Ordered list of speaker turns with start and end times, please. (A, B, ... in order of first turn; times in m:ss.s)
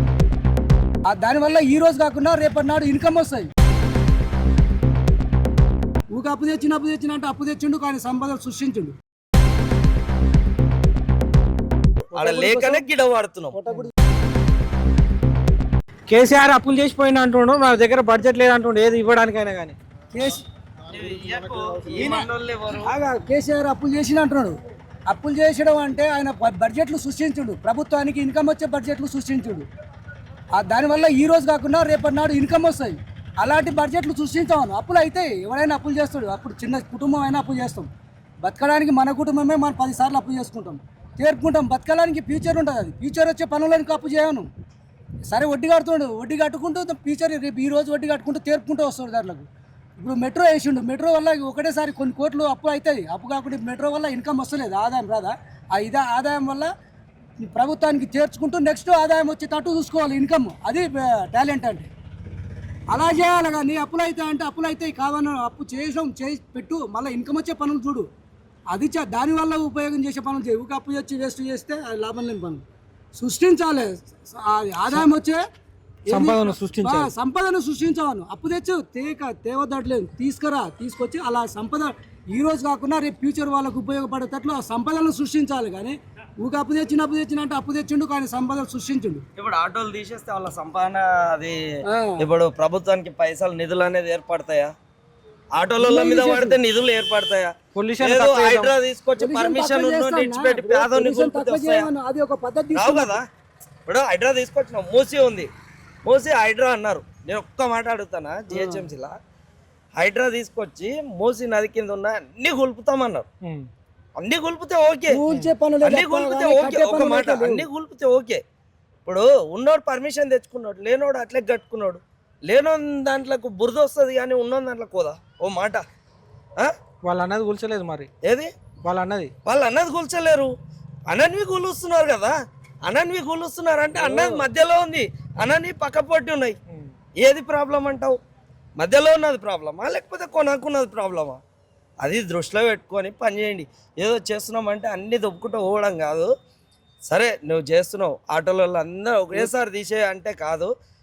0:01.1-0:03.5 A
0:06.1-0:09.0 A
0:12.1-0:12.9 A
0:12.2-0:13.6 B
0:13.5-0:13.9 A
0:16.1-0:19.8 C
0:20.1-0:20.4 A
0:20.9-0:22.9 B
0:21.9-0:22.3 A
0:22.8-0:24.6 A
0:25.1-0:29.7 A
0:30.6-0:37.9 A
0:38.4-0:44.5 A
0:45.3-0:49.4 A
0:50.0-0:56.7 A
0:57.4-1:01.9 A
1:02.9-1:08.1 A
1:08.7-1:12.6 A
1:13.2-1:15.4 A
1:16.1-1:29.2 A
1:16.1-1:17.1 C
1:29.4-1:31.6 B
1:31.9-1:32.2 A
1:32.2-1:34.7 B
1:35.6-1:41.9 B
1:35.8-1:36.6 A
1:37.7-1:38.7 C
1:39.2-1:43.2 A
1:42.7-1:43.2 B
1:43.9-1:45.5 B
1:46.0-1:49.1 B
1:48.5-1:48.8 A
1:50.0-1:53.3 B
1:53.4-1:53.7 C
1:54.2-1:55.2 B
1:55.1-1:57.7 A
1:55.8-1:58.4 B
1:59.0-2:05.8 B
2:07.0-2:08.1 C
2:08.2-2:08.5 B
2:08.8-2:09.3 C
2:09.5-2:10.5 B
2:11.1-2:12.3 B
2:12.9-2:16.6 B
2:14.1-2:14.3 A
2:17.2-2:18.2 B
2:18.8-2:21.4 B
2:22.0-2:26.3 B
2:27.1-2:30.7 B